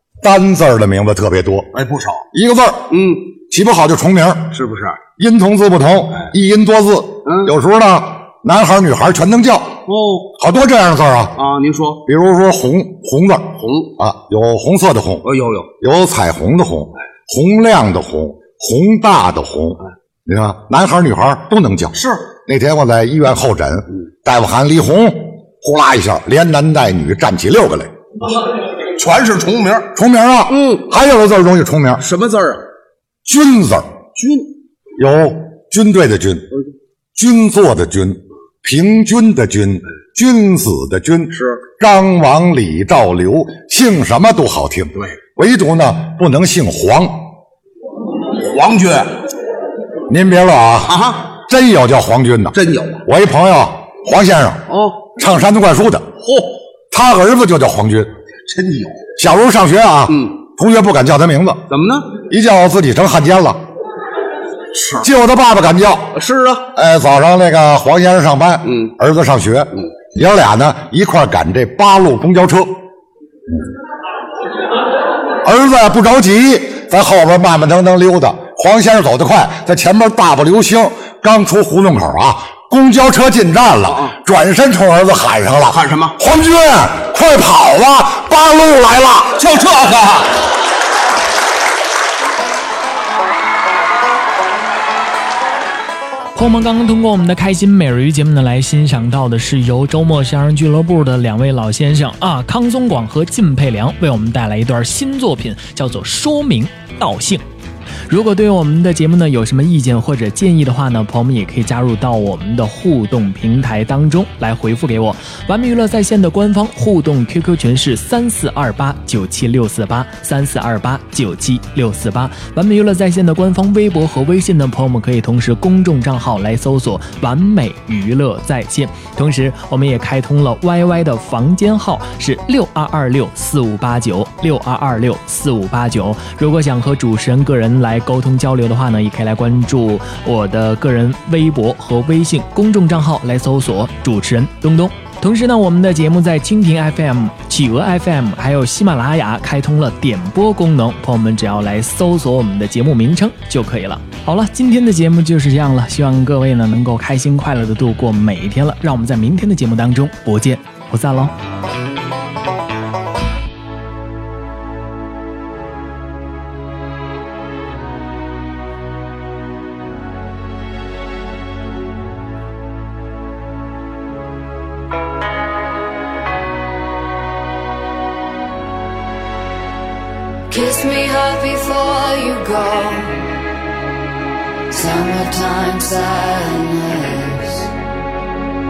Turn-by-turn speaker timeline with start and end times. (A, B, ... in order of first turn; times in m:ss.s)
0:00.2-0:01.7 A
0:01.7-0:02.2 B
0:02.3-0:02.9 A
0:02.9-0:03.3 B
0:03.5-0:04.5 A
0:04.5-0:05.0 B
0:05.2-0:09.8 A
0:07.2-0:07.5 B
0:09.9-0:10.3 B
0:10.4-0:11.4 A
0:11.4-0:12.0 B
0:12.0-0:15.3 A
0:13.6-0:13.9 B
0:15.2-0:15.7 B
0:15.8-0:27.9 A
0:21.9-0:22.2 B
0:28.9-0:29.9 B
0:29.9-0:32.0 A
0:30.5-0:30.8 B
0:32.0-0:32.7 B
0:33.2-0:33.9 A
0:34.2-0:34.5 B
0:35.0-0:36.5 A
0:37.1-0:47.3 A
0:41.3-0:41.6 B
0:48.4-0:49.2 B
0:50.1-0:56.1 A
0:50.8-0:51.3 B
0:52.5-0:53.0 B
0:54.7-0:55.1 B
0:56.2-0:56.6 B
0:56.9-0:58.1 A
0:58.5-0:59.1 B
0:59.2-1:01.6 A
1:00.1-1:00.4 B
1:01.7-1:02.2 B
1:02.2-1:03.6 A
1:04.7-1:05.0 B
1:05.0-1:06.2 A
1:06.1-1:06.7 B
1:06.7-1:12.8 A
1:08.6-1:08.9 B
1:15.4-1:29.4 A
1:23.9-1:24.1 B
1:25.7-1:26.2 B
1:29.4-1:30.4 B
1:36.3-1:47.4 C
1:48.1-2:41.3 C
3:00.5-3:03.3 D
3:04.7-3:07.7 D